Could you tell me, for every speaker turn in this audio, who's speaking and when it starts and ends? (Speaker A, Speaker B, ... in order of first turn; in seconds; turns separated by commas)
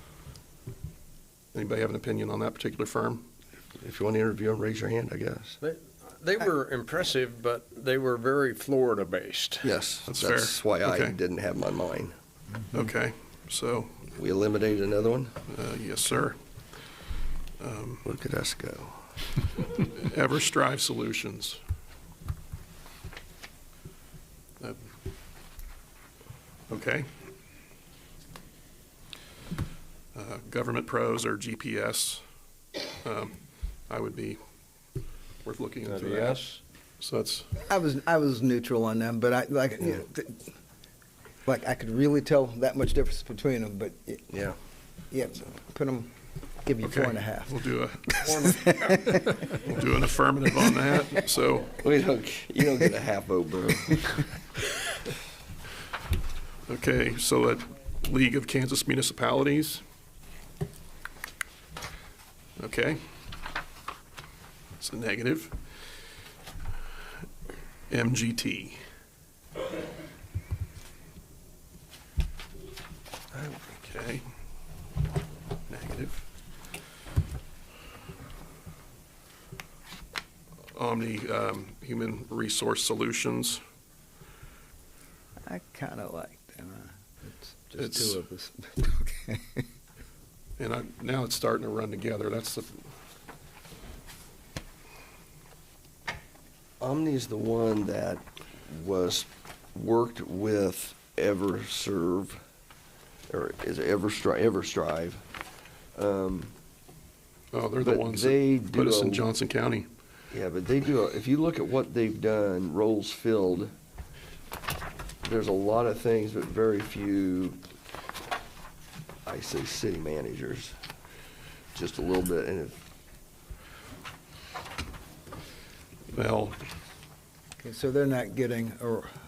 Speaker A: 1.5-3.2, Speaker B: 3.8-5.6, Speaker C: 5.6-9.8, Speaker B: 9.6-12.1, Speaker A: 10.1-11.2, Speaker A: 12.7-13.9, Speaker B: 14.2-15.3, Speaker A: 15.5-16.4, Speaker A: 17.6-18.1, Speaker B: 18.1-19.0, Speaker A: 19.8-21.6, Speaker A: 26.7-27.1, Speaker A: 30.1-32.2, Speaker A: 33.0-33.4, Speaker A: 33.9-34.4, Speaker A: 35.5-36.4, Speaker C: 35.8-36.6, Speaker A: 37.0-37.5, Speaker D: 37.7-40.5, Speaker D: 41.5-44.3, Speaker B: 44.3-44.5, Speaker D: 45.1-46.1, Speaker D: 46.6-47.6, Speaker A: 46.8-48.5, Speaker D: 48.2-49.4, Speaker A: 49.6-51.8, Speaker B: 51.8-54.3, Speaker A: 56.7-59.8, Speaker A: 62.6-63.0, Speaker A: 64.8-65.6, Speaker A: 67.9-68.8, Speaker A: 73.4-74.2, Speaker A: 75.7-76.2, Speaker A: 80.7-83.6, Speaker D: 85.5-89.6, Speaker A: 87.8-88.2, Speaker A: 90.6-92.8, Speaker B: 96.8-102.4, Speaker B: 103.3-105.2, Speaker B: 106.0-106.5, Speaker A: 107.5-109.9, Speaker B: 107.8-109.3, Speaker B: 110.3-113.7, Speaker B: 115.2-117.6, Speaker B: 119.2-120.7, Speaker B: 121.7-122.8, Speaker A: 126.1-126.6, Speaker D: 127.6-129.1